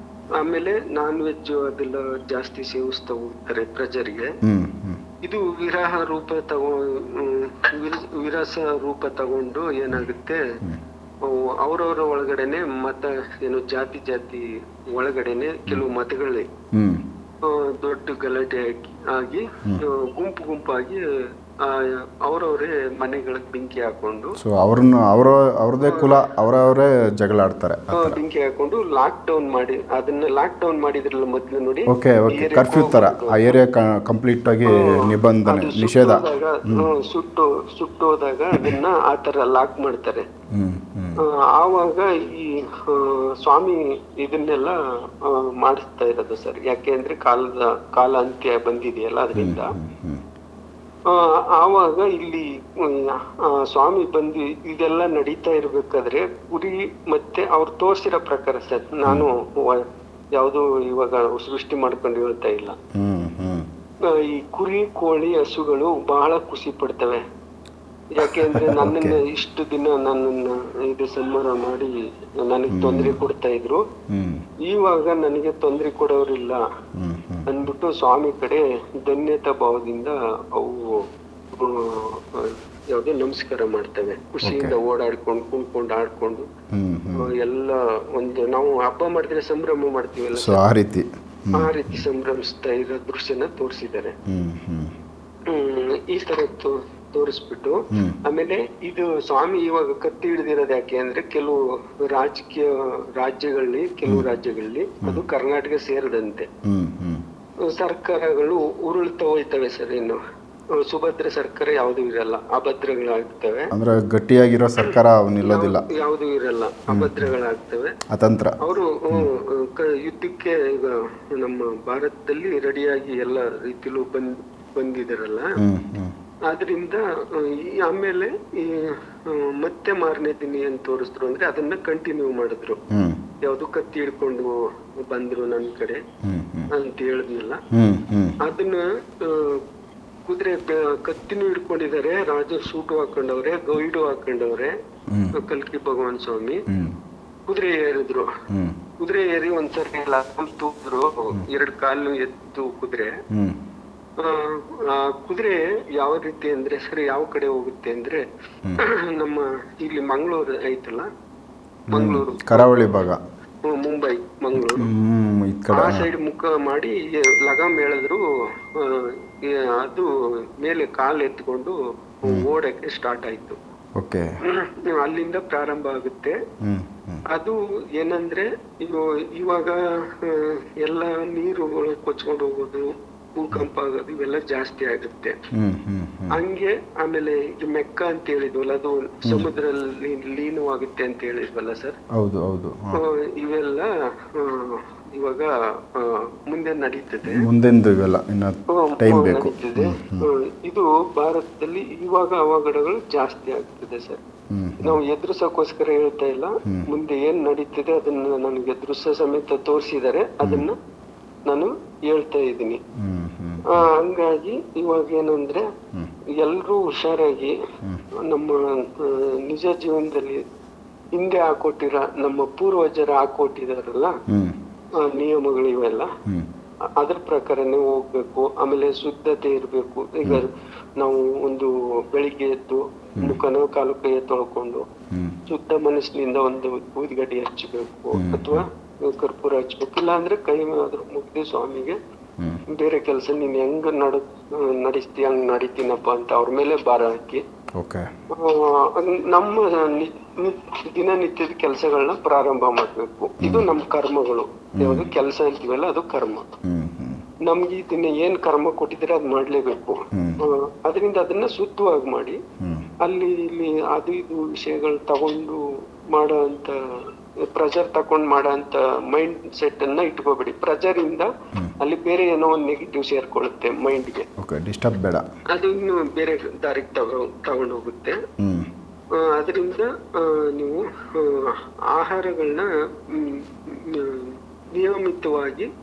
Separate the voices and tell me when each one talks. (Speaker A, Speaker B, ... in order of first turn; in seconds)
Speaker A: 0.4-4.3, 5.2-10.4, 11.2-16.5, 17.4-21.0, 21.6-24.4, 25.8-26.3, 27.9-33.5, 34.7-40.2, 41.2-49.7, 51.1-62.8, 64.0-67.2, 68.1-73.8, 74.6-76.6, 77.5-81.0, 81.5-86.5, 87.2-90.6, 91.5-94.1, 95.5-106.5, 107.6-110.2, 110.8-113.7, 115.4-117.9, 118.6-125.6, 126.5-132.8, 133.4-136.0, 136.7-137.6, 138.4-139.6, 140.2-144.7, 145.3-146.6, 147.5-148.3, 149.0-153.2, 154.2-158.2, 158.8-161.1, 161.9-162.9, 163.6-164.9, 165.7-168.2, 168.8-173.6, 174.4-176.4, 177.3-185.4, 186.3-192.0, 192.9-197.5, 198.7-204.2, 204.8-210.8, 211.5-212.8, 213.7-215.7, 216.4-217.6, 218.2-220.4, 221.1-224.2, 224.9-226.1, 227.0-234.8, 235.5-242.0, 242.7-247.4, 248.3-256.5, 257.4-262.4, 263.0-266.8, 267.5-274.2, 275.5-278.2, 279.1-285.7
Speaker B: 4.4-5.0, 16.7-17.1, 24.4-28.2, 31.9-36.9, 40.5-41.2, 49.4-50.2, 62.9-63.7, 68.2-69.2, 72.7-73.2, 74.1-74.4, 77.0-77.5, 84.4-84.8, 86.7-87.3, 90.3-92.0, 94.3-94.9, 97.9-98.2, 106.6-107.2, 113.7-115.8, 116.9-117.3, 118.1-118.6, 125.6-126.1, 132.9-133.2, 136.2-136.7, 137.7-138.4, 145.1-145.3, 146.7-147.0, 148.5-148.8, 153.3-153.6, 161.9-163.2, 164.6-166.1, 174.0-174.3, 176.6-177.2, 185.5-186.4, 189.2-189.5, 192.1-193.0, 197.3-200.3, 204.5-205.0, 210.4-210.7, 212.9-213.9, 224.3-224.6, 235.1-235.4, 238.1-238.7, 247.7-248.1, 253.4-253.7, 254.8-255.1, 256.6-257.2, 260.1-260.4, 262.6-262.9, 274.4-275.2, 278.4-278.7